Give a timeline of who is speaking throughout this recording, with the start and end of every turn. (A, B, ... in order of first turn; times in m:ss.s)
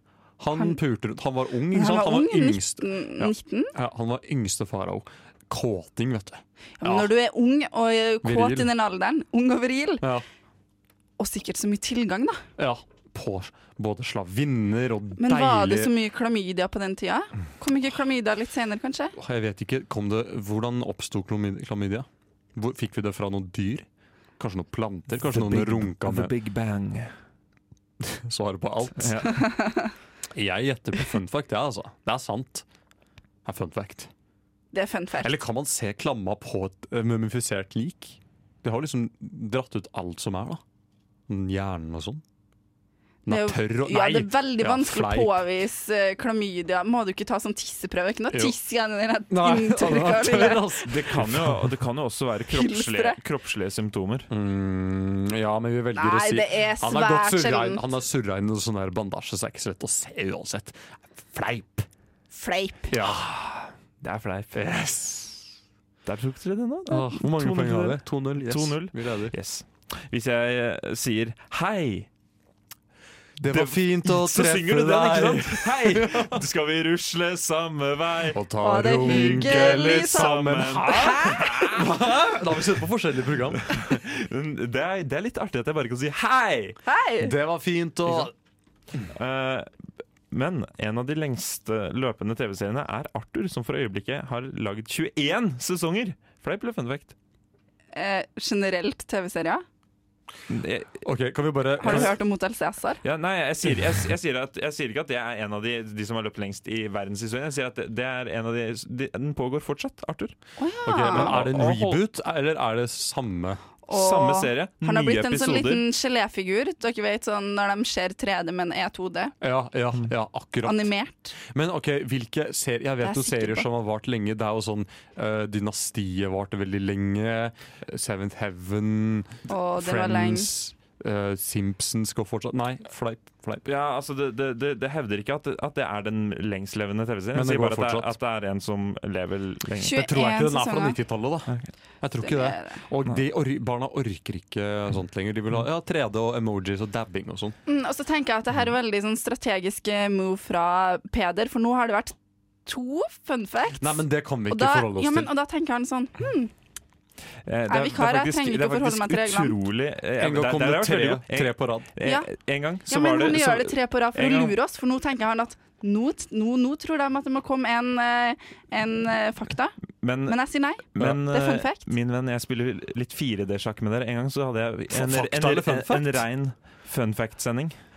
0:00.4-0:07.1 A
0:01.7-0:03.7 B
0:06.8-0:10.0 B
0:08.2-0:08.7 A
0:11.2-0:12.4 B
0:12.6-0:15.9 A
0:15.2-0:19.1 B
0:19.2-0:23.9 A
0:24.4-0:26.3 A
0:25.1-0:27.1 C
0:28.0-0:29.3 A
0:29.0-0:29.4 C
0:30.3-0:32.6 A
0:33.4-0:34.1 A
0:34.7-0:35.4 B
0:35.2-0:40.6 A
0:41.3-0:42.2 A
0:43.2-0:45.4 A
0:43.3-0:51.0 B
0:48.3-0:48.6 A
0:49.3-0:51.7 A
0:50.8-0:54.3 C
0:52.5-0:53.2 B
0:54.3-1:01.9 A
0:56.0-0:57.8 B
1:02.3-1:03.0 B
1:02.9-1:03.2 A
1:03.1-1:04.6 C
1:04.5-1:05.4 A
1:06.0-1:12.1 C
1:06.9-1:09.3 A
1:13.4-1:16.4 A
1:13.5-1:18.4 C
1:18.3-1:23.8 A
1:18.6-1:21.1 B
1:19.1-1:21.8 C
1:23.8-1:26.8 C
1:26.8-1:27.3 B
1:27.2-1:28.3 A
1:29.1-1:29.7 C
1:30.3-1:37.1 C
1:37.9-1:39.6 B
1:40.5-1:41.0 C
1:41.0-1:42.2 A
1:41.8-1:43.0 B
1:43.0-1:50.3 C
1:50.6-1:51.5 B
1:50.8-1:53.6 A
1:51.1-1:52.0 C
1:53.8-1:59.3 B
1:53.9-1:55.9 C
1:59.4-2:13.7 A
2:00.6-2:01.3 B
2:03.0-2:03.7 B
2:09.5-2:10.5 B
2:13.6-2:20.0 C
2:17.3-2:18.2 A
2:19.8-2:21.0 B
2:19.9-2:27.6 A
2:21.5-2:21.7 C
2:22.2-2:22.8 B
2:27.6-2:32.1 B
2:32.6-2:36.5 B
2:33.8-2:35.3 A
2:37.4-2:44.6 C
2:37.7-2:39.6 B
2:40.2-2:41.9 A
2:42.0-2:42.3 B
2:42.8-2:51.8 B
2:49.9-2:50.4 C
2:50.9-2:57.8 C
2:54.9-2:56.2 A